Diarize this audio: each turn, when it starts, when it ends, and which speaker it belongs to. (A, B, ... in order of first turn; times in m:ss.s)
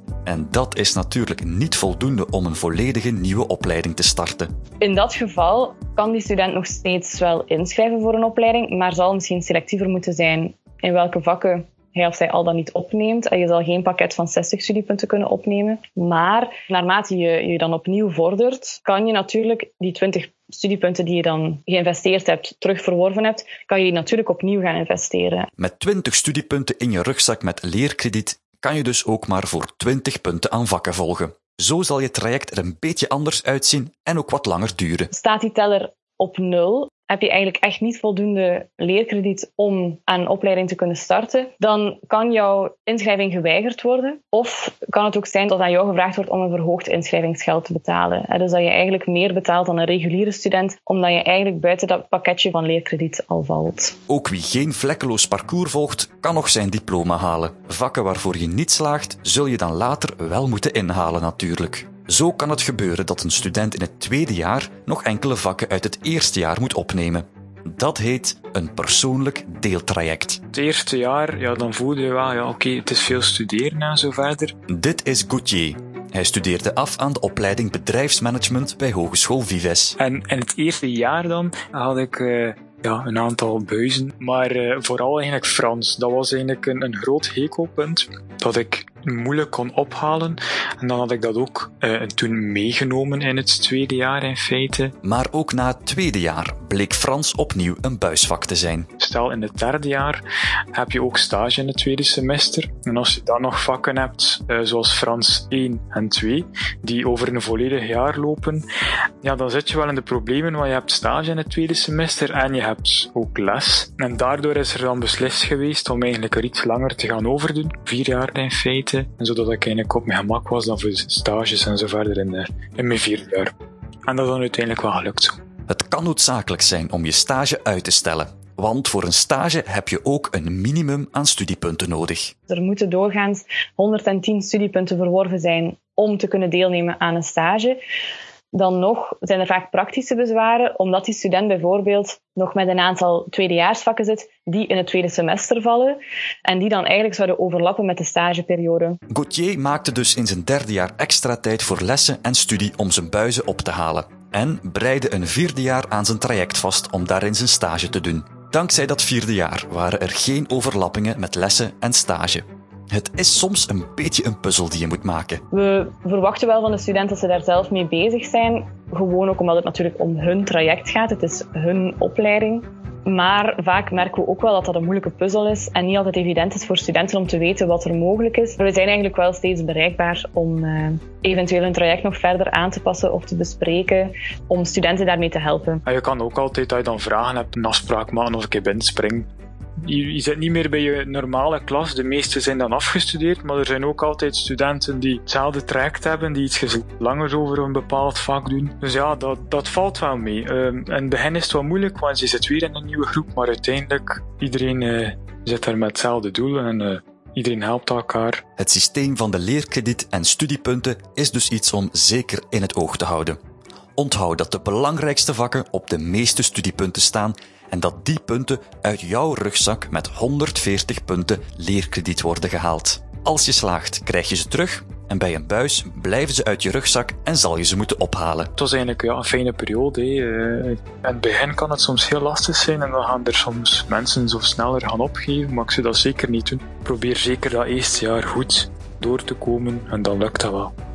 0:00.2-0:04.5 A
0:04.8-0:25.5 B
0:25.6-0:35.1 A
0:35.1-0:54.0 B
0:54.1-1:10.4 A
1:10.5-1:14.6 C
1:14.7-1:20.0 A
1:20.0-1:34.9 C
1:35.0-1:38.9 A
1:39.0-1:40.2 C
1:40.7-1:48.6 C
1:49.2-2:03.5 C
2:04.0-2:05.4 C
2:05.7-2:12.3 A
2:12.5-2:17.8 B
2:18.5-2:29.0 B
2:29.1-2:45.4 A
2:45.5-3:05.8 B
3:05.9-3:09.3 C
3:09.8-3:28.4 C
3:28.6-3:33.4 A
3:34.0-3:48.5 A
3:48.6-4:00.7 C